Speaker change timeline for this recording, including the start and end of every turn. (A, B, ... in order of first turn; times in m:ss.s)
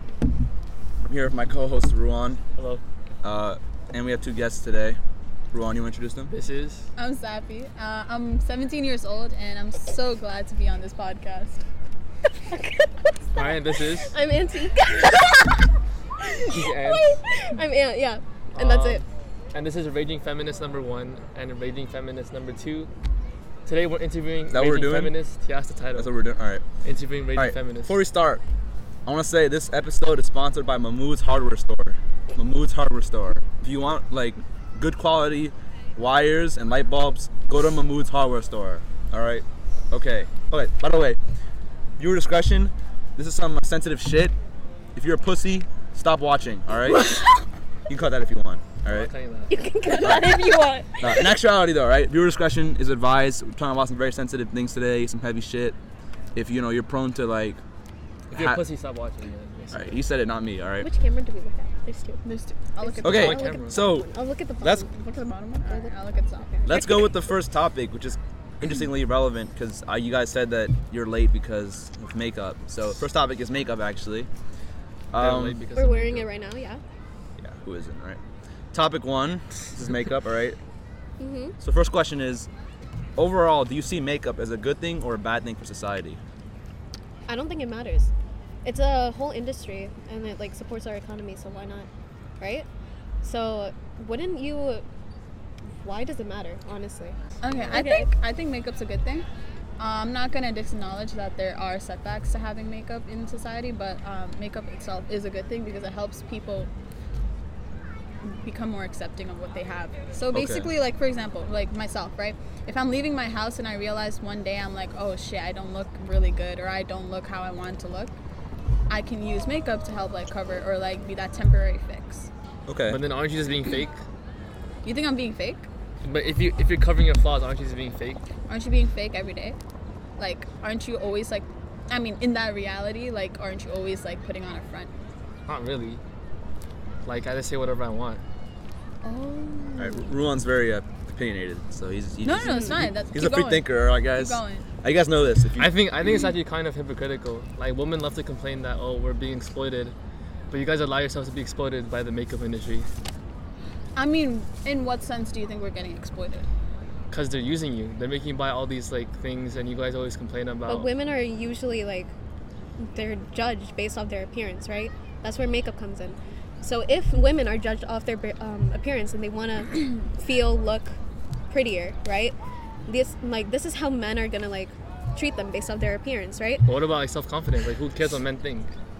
0:01.0-0:02.4 A
0:02.6-0:02.8 B
0:03.2-0:05.0 A
0:05.5-0:06.3 A
0:06.3-0:06.8 B
0:07.0-0:11.6 C
0:12.5-0:15.7 D
0:13.3-0:14.1 B
0:16.2-0:19.0 D
0:16.4-0:17.2 B
0:18.6-0:22.9 B
0:23.6-0:26.1 B
0:24.5-0:25.2 A
0:26.0-0:26.6 A
0:26.8-0:27.9 B
0:27.3-0:28.4 A
0:29.0-0:41.2 A
0:42.0-0:44.3 A
0:45.0-0:47.1 A
0:47.9-0:49.1 A
0:48.9-0:49.6 B
0:49.5-0:51.3 D
0:50.0-0:50.3 A
0:51.0-0:55.8 A
0:56.3-0:57.6 A
0:58.3-1:00.0 B
0:58.3-0:58.6 A
0:59.7-1:00.9 A
1:00.8-1:02.2 D
1:02.2-1:03.5 C
1:02.8-1:04.9 D
1:03.0-1:04.1 A
1:03.0-1:03.8 B
1:04.6-1:04.8 A
1:04.8-1:07.0 C
1:05.7-1:05.9 D
1:06.6-1:14.3 A
1:06.7-1:07.0 D
1:15.1-1:15.6 A
1:15.1-1:16.3 B
1:15.7-1:16.8 D
1:17.4-1:18.2 A
1:18.7-1:20.6 A
1:21.2-1:21.6 D
1:21.6-1:22.5 A
1:23.2-1:26.2 A
1:27.3-1:28.1 D
1:28.6-1:31.9 D
1:32.4-1:32.7 D
1:33.2-1:34.8 D
1:35.6-1:38.1 D
1:37.4-1:39.2 C
1:39.8-1:46.7 C
1:48.2-1:58.1 C
1:50.3-1:50.7 A
1:58.9-2:02.3 C
2:02.7-2:03.0 A
2:02.9-2:04.0 B
2:04.8-2:05.7 C
2:06.0-2:08.2 B
2:08.5-2:09.6 C
2:10.2-2:14.9 C
2:15.5-2:16.0 B
2:17.0-2:18.2 B
2:19.0-2:19.8 C
2:19.8-2:25.7 A
2:22.2-2:24.6 C
2:22.4-2:22.9 D
2:25.6-2:29.9 B
2:30.5-2:32.9 B
2:34.0-2:36.5 C
2:37.1-2:40.9 B
2:40.7-2:42.1 D
2:42.8-2:51.0 D
2:51.5-2:52.3 D
2:52.9-2:56.7 D
2:56.6-2:58.7 B